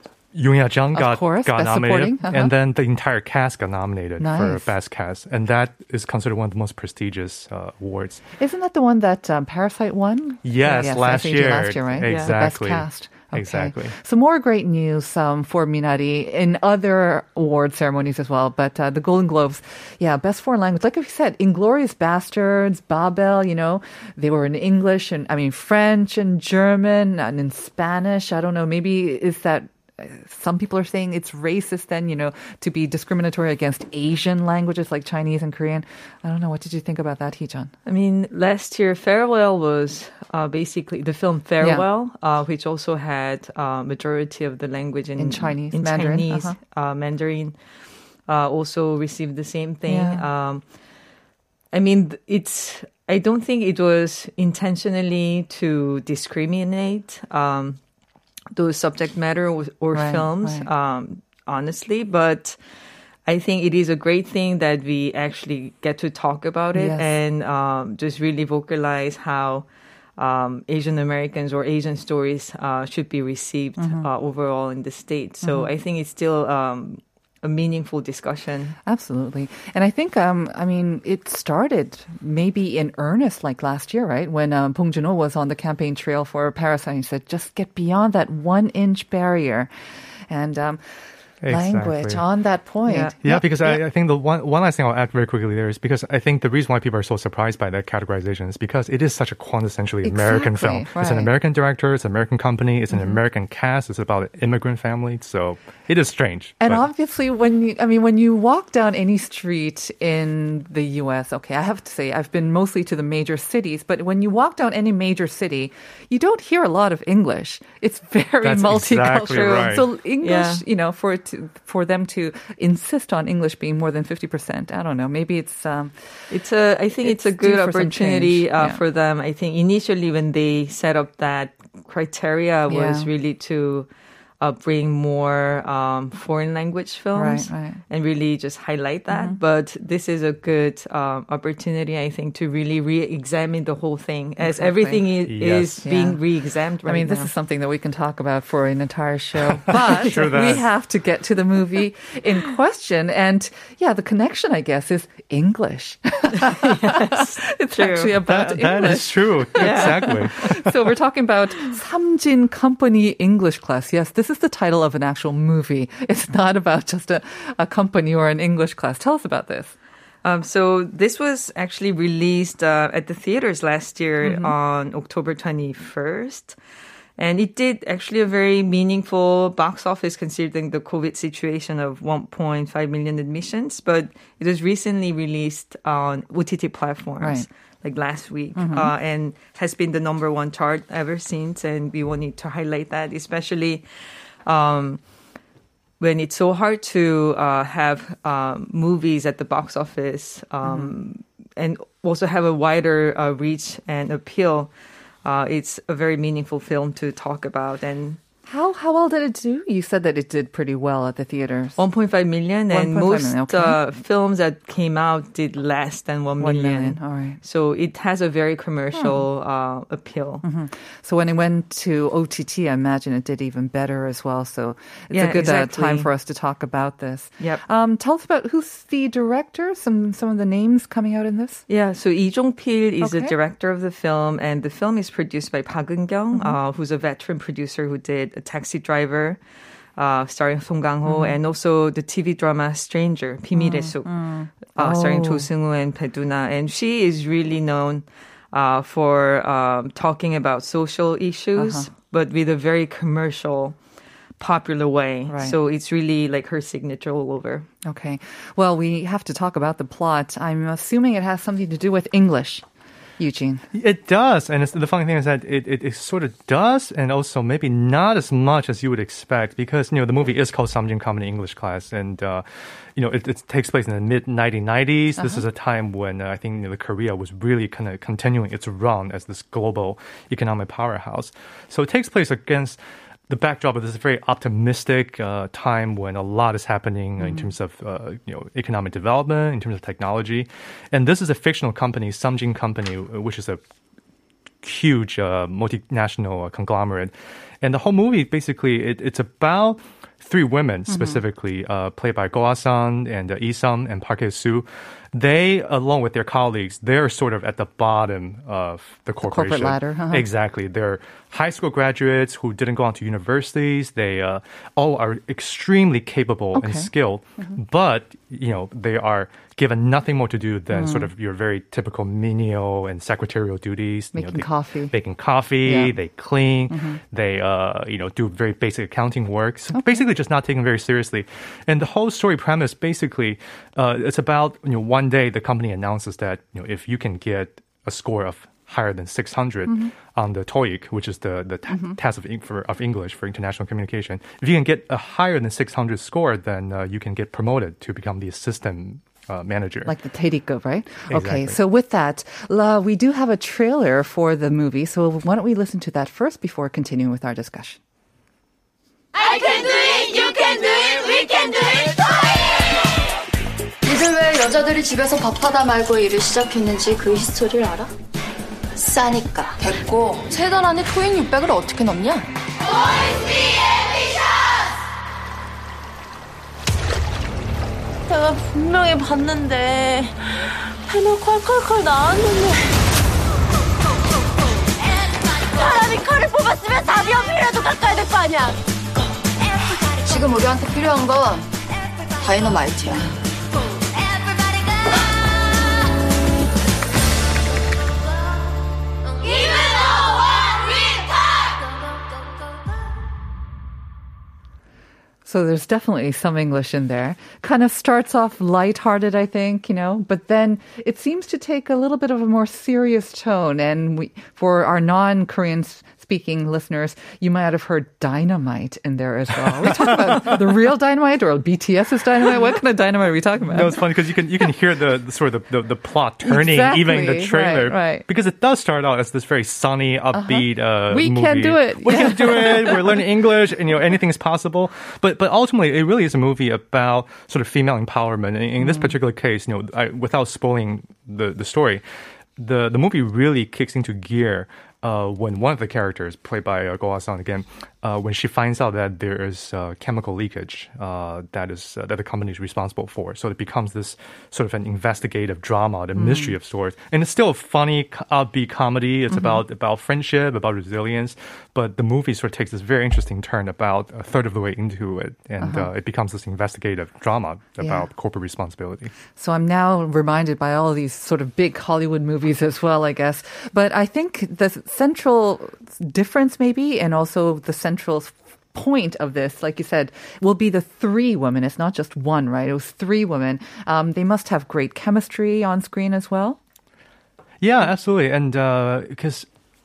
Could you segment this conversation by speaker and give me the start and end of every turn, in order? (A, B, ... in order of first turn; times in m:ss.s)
0:00.3-0:08.2 A
0:01.0-0:02.5 B
0:04.2-0:04.7 B
0:08.4-0:37.7 B
0:10.4-0:14.0 A
0:12.0-0:12.3 C
0:37.8-0:47.6 C
0:45.2-0:46.6 B
0:48.3-0:50.6 C
0:49.9-0:50.3 B
0:51.7-0:57.8 C
0:58.5-1:02.6 C
0:59.9-1:00.7 B
1:03.3-1:09.7 C
1:06.7-1:07.2 B
1:10.2-1:18.8 C
1:13.8-1:14.1 B
1:15.4-1:15.7 B
1:18.9-1:29.7 B
1:30.3-1:30.8 B
1:31.4-1:32.2 A
1:31.5-1:33.8 B
1:32.9-1:33.2 C
1:33.2-1:46.9 A
1:40.0-1:41.3 B
1:42.9-1:43.2 B
1:46.6-2:06.3 B
1:58.4-1:59.9 A
2:00.2-2:00.6 C
2:06.3-2:13.9 C
2:07.0-2:08.8 B
2:12.7-2:13.1 B
2:14.4-2:27.3 C
2:17.1-2:17.8 B
2:19.1-2:19.4 B
2:24.4-2:25.0 B
2:25.3-2:25.9 A
2:25.8-2:26.2 B
2:26.8-2:49.8 B
2:29.8-2:30.7 A
2:30.0-2:30.6 C
2:36.4-2:38.2 C
2:38.3-2:40.8 A
2:39.6-2:40.2 C
2:50.2-2:56.6 C
2:54.2-2:54.5 B
2:57.2-3:13.8 C
3:07.2-3:07.5 B
3:08.6-3:08.9 B
3:14.4-3:15.0 C
3:16.0-3:24.7 C
3:20.6-3:20.9 B
3:25.2-3:28.2 C
3:28.5-3:31.8 B
3:31.8-3:40.4 C
3:32.7-3:33.8 B
3:36.4-3:37.4 B
3:38.9-3:39.3 B
3:40.4-3:51.6 B
3:45.1-3:46.1 C
3:51.7-3:59.4 C
3:53.0-3:53.4 B
3:56.3-3:56.6 B
4:00.0-4:13.8 C
4:01.0-4:01.4 B
4:03.6-4:05.5 B
4:11.6-4:11.9 B
4:14.4-4:17.7 C
4:15.3-4:15.6 B
4:17.8-4:22.6 B
4:23.2-4:23.6 B
4:23.7-4:32.4 A
4:33.0-4:53.6 A
4:35.2-4:35.4 B
4:47.2-4:47.5 B
4:54.6-5:50.0 A
5:00.9-5:01.2 B
5:09.2-5:10.3 B
5:16.6-5:16.9 B
5:20.7-5:21.1 B
5:24.1-5:25.0 B
5:25.6-5:26.0 B
5:26.7-5:27.0 B
5:29.7-5:30.0 B
5:49.9-5:57.8 B
5:51.1-5:51.6 A
5:59.2-6:01.8 D
6:03.9-6:07.9 D
6:08.8-6:10.9 D
6:10.3-6:12.3 E
6:11.5-6:12.1 D
6:18.1-6:20.2 E
6:20.9-6:22.6 E
6:25.5-6:28.5 E
6:30.0-6:31.5 D
6:32.2-6:33.2 D
6:45.2-7:03.8 B
7:03.5-7:21.8 A
7:06.2-7:08.1 B
7:10.1-7:13.0 B
7:18.6-7:18.9 B
7:22.4-7:48.9 A
7:36.0-7:36.4 B
7:39.1-7:39.4 B
7:45.4-7:45.7 B
7:47.6-7:47.9 B
7:49.2-8:06.4 B
8:07.4-8:09.3 A